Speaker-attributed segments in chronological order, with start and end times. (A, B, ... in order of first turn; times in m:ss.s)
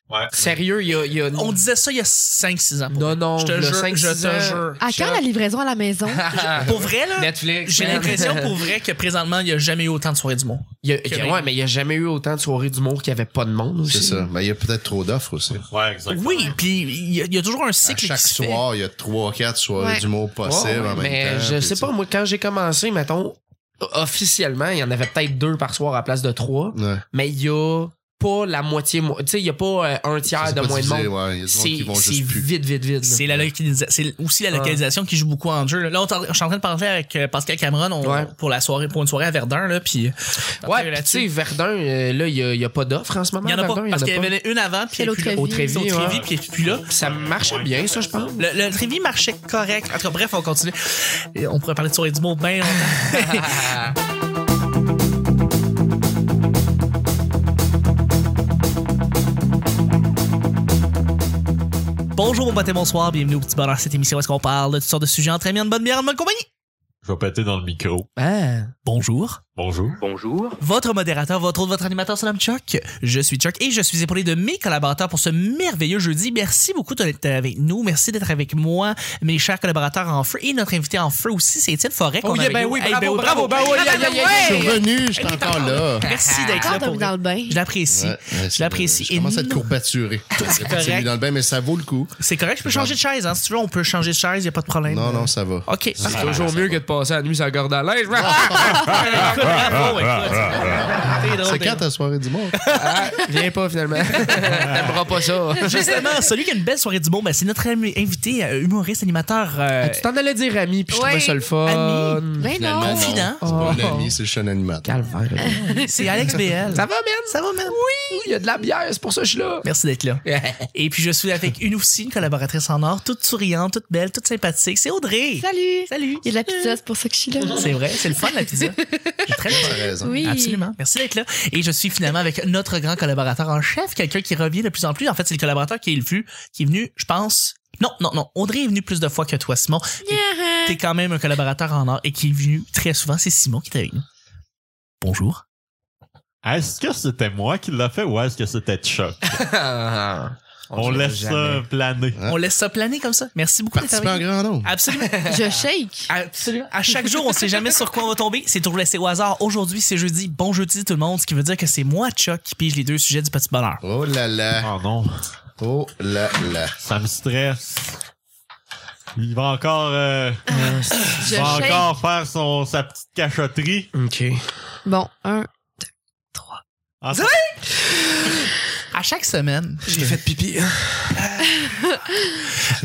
0:00.1-0:00.6 A
0:00.3-0:01.6 B
0:01.3-0:04.8 C
0:02.9-0:05.2 B
0:04.8-0:06.3 D
0:06.1-0:08.5 B
0:06.5-0:11.5 C
0:10.8-0:14.3 B
0:13.8-0:15.6 E
0:15.7-0:16.6 A
0:16.1-0:18.6 C
0:17.8-0:21.9 E
0:19.8-0:20.0 D
0:20.4-0:33.2 B
0:26.7-0:27.0 E
0:30.4-0:32.5 E
0:33.0-0:41.3 C
0:34.5-0:34.8 B
0:38.0-0:38.3 B
0:40.6-0:44.3 B
0:43.4-0:46.8 C
0:44.9-0:46.0 D
0:45.7-0:46.2 B
0:46.0-0:48.4 A
0:46.9-0:48.4 B
0:48.4-0:50.7 C
0:51.3-0:53.8 C
0:53.0-0:53.9 B
1:02.1-1:06.4 C
1:07.0-1:08.1 A
1:08.2-1:08.7 B
1:08.8-1:09.4 C
1:09.6-1:10.0 A
1:10.0-1:10.5 B
1:10.6-1:29.7 C
1:22.2-1:24.8 B
1:23.6-1:24.8 D
1:24.3-1:26.1 E
1:26.0-1:26.8 B
1:26.5-1:27.6 D
1:27.9-1:33.0 E
1:30.3-1:31.1 C
1:32.2-1:36.2 C
1:34.8-1:36.8 E
1:36.0-1:36.6 A
1:36.0-1:39.5 B
1:38.1-1:39.6 E
1:38.9-1:41.8 C
1:39.4-1:40.6 A
1:40.2-1:42.6 E
1:42.6-1:43.2 C
1:42.7-1:45.8 B
1:44.4-1:45.0 A
1:45.6-1:50.0 C
1:49.8-1:52.5 B
1:50.9-1:51.4 D
1:51.6-1:52.2 C
1:52.4-1:53.2 D
1:52.4-1:54.9 E
1:52.8-1:53.4 C
1:53.4-1:54.1 B
1:54.8-1:59.6 B
1:55.5-1:55.8 D
1:55.8-1:57.8 C
1:59.6-2:06.7 C
2:00.2-2:00.7 B
2:05.4-2:10.6 D
2:07.5-2:24.0 C
2:09.4-2:10.2 E
2:20.0-2:20.8 D
2:25.0-2:25.4 C
2:26.4-2:29.4 A
2:29.3-2:31.6 B
2:30.7-2:32.2 A
2:32.3-2:35.2 C
2:33.7-2:34.7 E
2:34.9-2:35.5 B
2:35.3-2:36.1 D
2:36.1-2:43.8 C
2:43.8-2:44.7 E
2:44.6-2:45.2 A
2:45.6-2:46.7 E
2:46.8-2:48.0 A
2:49.2-2:50.5 A
2:50.5-2:51.9 D
2:50.5-2:51.7 B
2:51.1-2:53.9 A
2:53.9-2:54.4 B
2:54.8-2:55.5 D
2:57.0-2:57.4 A
2:58.9-2:59.8 C
2:59.8-3:01.2 B
2:59.9-3:00.2 E
3:01.2-3:01.6 C
3:01.6-3:02.4 D